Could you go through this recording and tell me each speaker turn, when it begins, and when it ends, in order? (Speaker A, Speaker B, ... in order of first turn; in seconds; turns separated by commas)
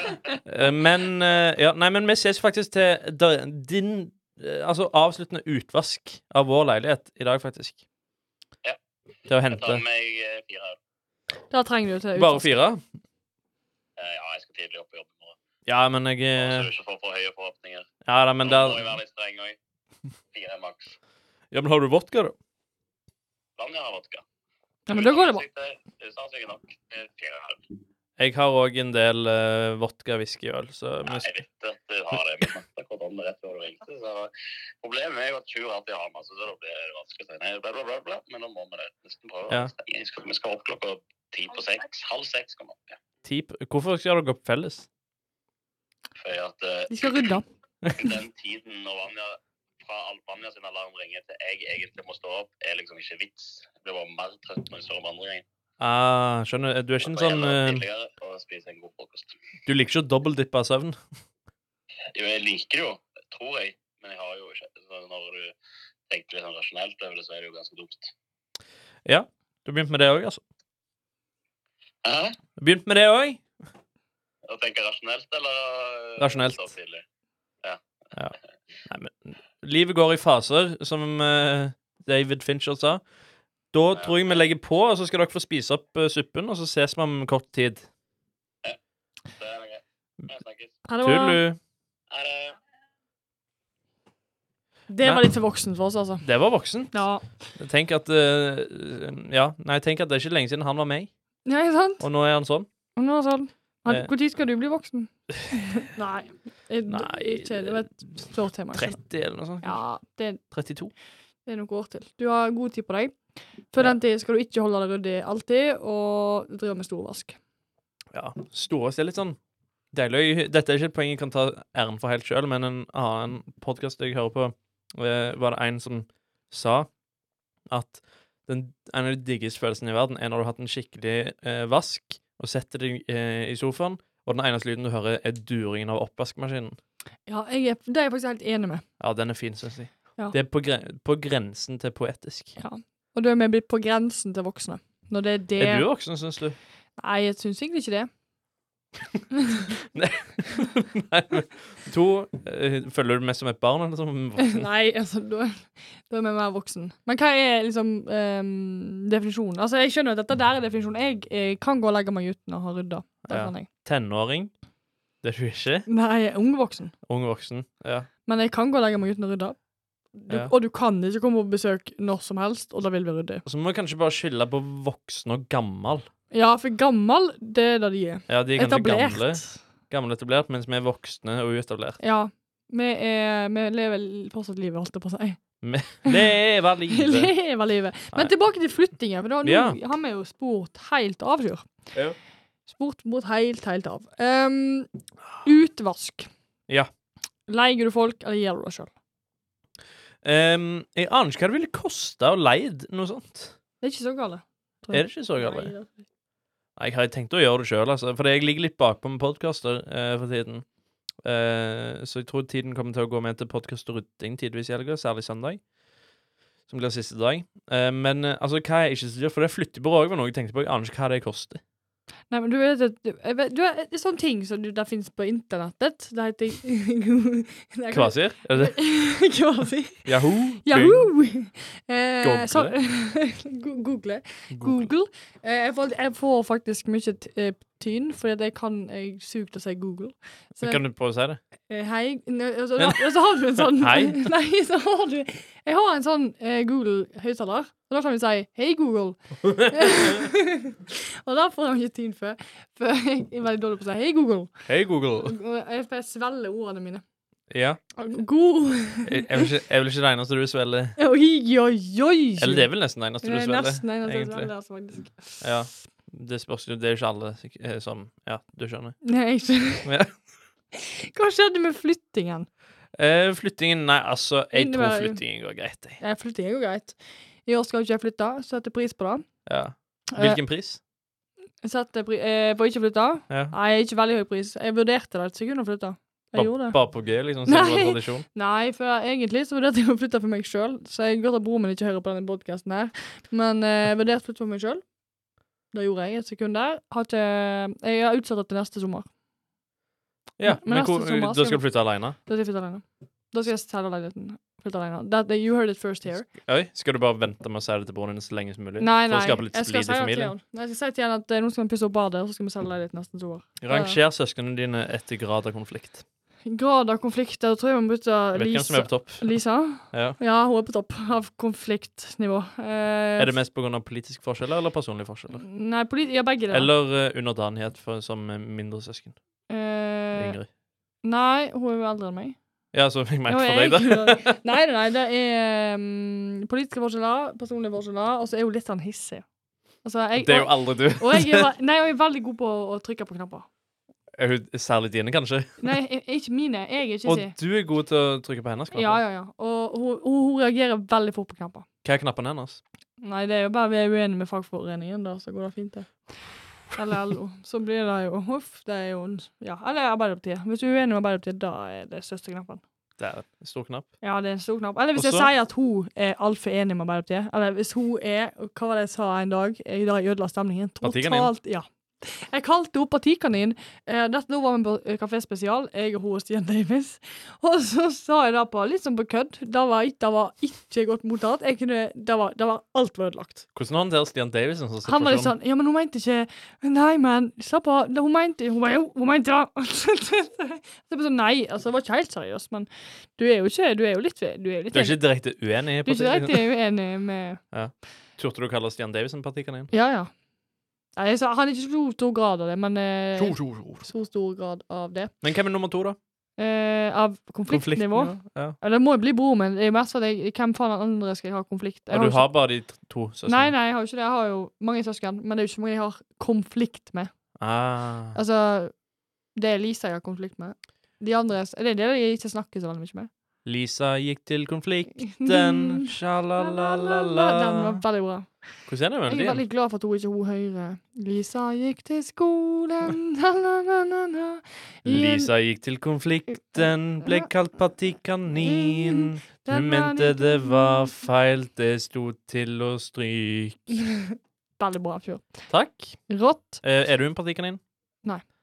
Speaker A: 0.4-7.8, Speaker A: 9.3-9.8, Speaker B: 9.5-10.8, Speaker C: 11.5-12.5, Speaker A: 12.2-12.8, Speaker B: 14.0-15.3, Speaker A: 15.7-16.7, Speaker B: 16.4-17.9, Speaker A: 18.0-18.9, Speaker B: 18.4-19.6, Speaker B: 20.3-20.9, Speaker A: 21.5-22.4, Speaker B: 23.6-24.2, Speaker C: 24.9-25.4, Speaker B: 24.9-27.6, Speaker A: 28.2-31.3, Speaker B: 31.1-34.3, Speaker B: 34.8-43.0, Speaker A: 43.2-44.9, Speaker B: 46.2-47.3, Speaker C: 46.9-47.4, Speaker B: 47.9-55.4, Speaker A: 55.8-57.8, Speaker B: 57.0-59.3, Speaker A: 59.6-61.0, Speaker B: 62.1-65.5, Speaker B: 66.1-68.1, Speaker A: 69.0-70.4, Speaker B: 72.0-72.4, Speaker A: 72.6-73.4, Speaker B: 74.5-77.0, Speaker A: 76.2-76.7, Speaker A: 78.9-83.0, Speaker A: 83.7-87.9, Speaker B: 83.9-84.4, Speaker B: 89.3-90.8, Speaker C: 90.8-91.4, Speaker A: 91.0-91.6, Speaker B: 92.1-92.6, Speaker C: 94.9-96.2, Speaker A: 96.2-101.1, Speaker C: 96.9-97.3, Speaker C: 101.5-102.0, Speaker A: 102.0-102.7, Speaker C: 103.0-109.0, Speaker A: 106.9-109.8, Speaker C: 109.6-110.4, Speaker A: 110.5-110.9, Speaker C: 111.5-117.4, Speaker A: 118.1-119.4, Speaker A: 119.9-126.9, Speaker A: 127.7-136.8, Speaker C: 137.3-138.8, Speaker A: 139.0-142.6, Speaker C: 142.6-145.9, Speaker A: 145.6-146.6, Speaker C: 147.0-148.1, Speaker A: 149.9-154.7, Speaker C: 154.4-163.7, Speaker A: 163.3-164.5, Speaker A: 165.2-165.9, Speaker C: 165.9-166.9, Speaker A: 167.1-168.1, Speaker C: 168.2-169.6, Speaker C: 170.2-173.4, Speaker A: 173.4-176.1, Speaker C: 176.3-179.6, Speaker A: 178.3-182.0, Speaker C: 182.0-185.4, Speaker A: 185.6-187.3, Speaker C: 186.0-186.3, Speaker C: 186.9-191.9, Speaker A: 189.4-189.8, Speaker C: 192.7-194.9, Speaker C: 195.4-196.3, Speaker C: 197.5-198.9, Speaker A: 200.2-203.5, Speaker C: 203.8-206.0, Speaker A: 204.9-205.7, Speaker A: 206.8-210.6, Speaker A: 211.2-215.6, Speaker A: 216.7-221.6, Speaker C: 222.3-240.8, Speaker A: 227.9-228.8, Speaker A: 230.1-231.1, Speaker A: 232.2-232.8, Speaker A: 234.5-234.9, Speaker A: 240.6-241.4, Speaker C: 241.7-254.7, Speaker A: 242.8-244.2, Speaker A: 249.4-250.2, Speaker A: 254.7-255.3, Speaker C: 255.2-257.0, Speaker A: 257.5-257.8, Speaker C: 258.0-259.4, Speaker A: 259.0-260.9, Speaker C: 261.0-265.5, Speaker A: 262.4-264.5, Speaker A: 265.4-269.0, Speaker C: 269.0-269.9, Speaker A: 269.8-270.1, Speaker C: 270.7-272.5, Speaker A: 272.9-276.0, Speaker C: 274.5-275.2, Speaker C: 276.0-279.3, Speaker A: 279.4-280.8, Speaker C: 280.1-280.4, Speaker C: 281.6-286.8, Speaker A: 286.3-288.2, Speaker C: 287.4-294.9, Speaker C: 295.7-299.1, Speaker A: 300.4-302.1, Speaker C: 300.4-306.3, Speaker A: 306.4-310.3, Speaker C: 308.8-314.0, Speaker A: 313.6-316.0, Speaker C: 316.4-323.3, Speaker A: 318.3-320.2, Speaker A: 323.2-325.4, Speaker C: 325.4-326.7, Speaker A: 326.5-329.2, Speaker C: 329.5-330.4, Speaker A: 330.1-330.5, Speaker C: 331.0-332.4, Speaker A: 332.7-334.3, Speaker C: 333.3-339.2, Speaker C: 339.8-343.5, Speaker A: 340.2-341.5, Speaker A: 344.1-345.6, Speaker C: 345.6-347.3, Speaker A: 347.0-349.0, Speaker C: 348.7-351.7, Speaker A: 351.8-352.6, Speaker C: 353.0-362.6, Speaker A: 363.0-363.9, Speaker C: 364.0-383.4, Speaker A: 364.9-365.3, Speaker A: 370.8-371.3, Speaker A: 383.5-385.3, Speaker C: 384.8-395.1, Speaker A: 394.7-396.5, Speaker C: 395.8-397.4, Speaker A: 397.5-399.7, Speaker C: 399.7-400.1, Speaker C: 400.9-405.1, Speaker A: 403.2-403.9, Speaker A: 405.2-406.0, Speaker C: 406.4-412.4, Speaker A: 407.5-408.6, Speaker A: 411.9-413.5, Speaker C: 413.2-417.1, Speaker A: 417.4-418.2, Speaker C: 418.1-418.8, Speaker C: 419.3-423.1, Speaker A: 423.4-427.8, Speaker C: 425.0-435.3, Speaker A: 428.7-429.4, Speaker A: 434.8-443.7, Speaker C: 436.4-437.3, Speaker C: 438.4-440.9, Speaker C: 443.9-445.5, Speaker A: 445.5-446.0, Speaker C: 446.1-446.6, Speaker A: 446.6-447.6